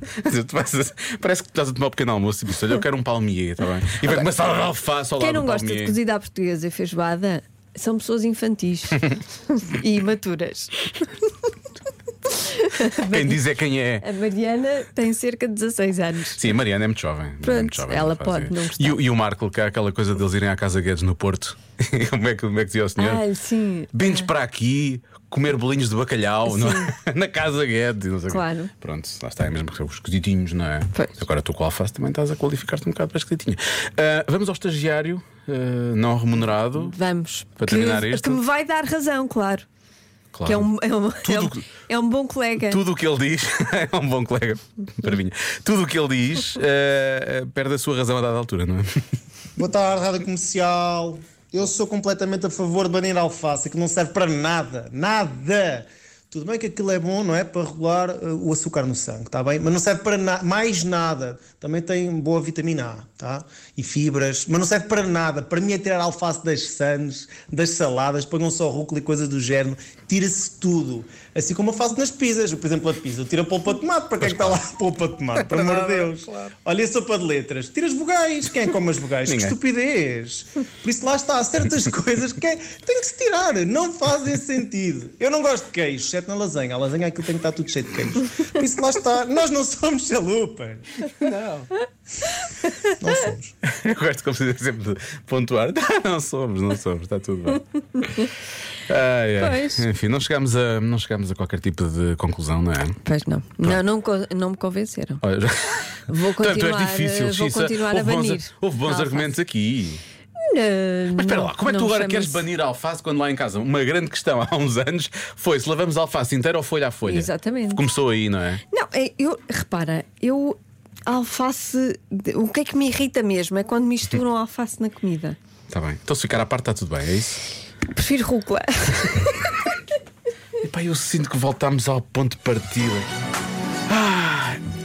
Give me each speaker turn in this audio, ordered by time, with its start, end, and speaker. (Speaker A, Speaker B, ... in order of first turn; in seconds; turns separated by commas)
Speaker A: 0.2-6.0, Speaker B: 5.2-11.1, Speaker B: 12.3-13.4, Speaker A: 13.1-14.1, Speaker B: 14.0-16.4, Speaker A: 16.4-23.2, Speaker B: 17.4-19.0, Speaker B: 23.0-24.3, Speaker A: 23.9-37.0, Speaker B: 26.5-26.9, Speaker B: 28.3-28.7, Speaker B: 36.7-39.7, Speaker A: 37.6-38.4, Speaker A: 40.3-40.7, Speaker B: 40.5-42.8, Speaker A: 41.2-41.7, Speaker A: 42.7-49.0, Speaker C: 49.6-90.9, Speaker A: 74.2-74.6, Speaker A: 79.3-79.6, Speaker A: 91.2-91.7, Speaker C: 93.0-93.5, Speaker A: 93.7-98.2, Speaker A: 98.9-103.0, Speaker B: 99.4-99.8, Speaker B: 103.0-105.2, Speaker A: 105.2-110.0, Speaker B: 106.1-109.3, Speaker B: 110.4-112.4, Speaker A: 111.2-118.6, Speaker B: 117.1-117.8, Speaker B: 118.7-125.4, Speaker A: 125.7-127.4, Speaker B: 127.9-129.6, Speaker A: 130.6-133.1, Speaker A: 133.9-134.6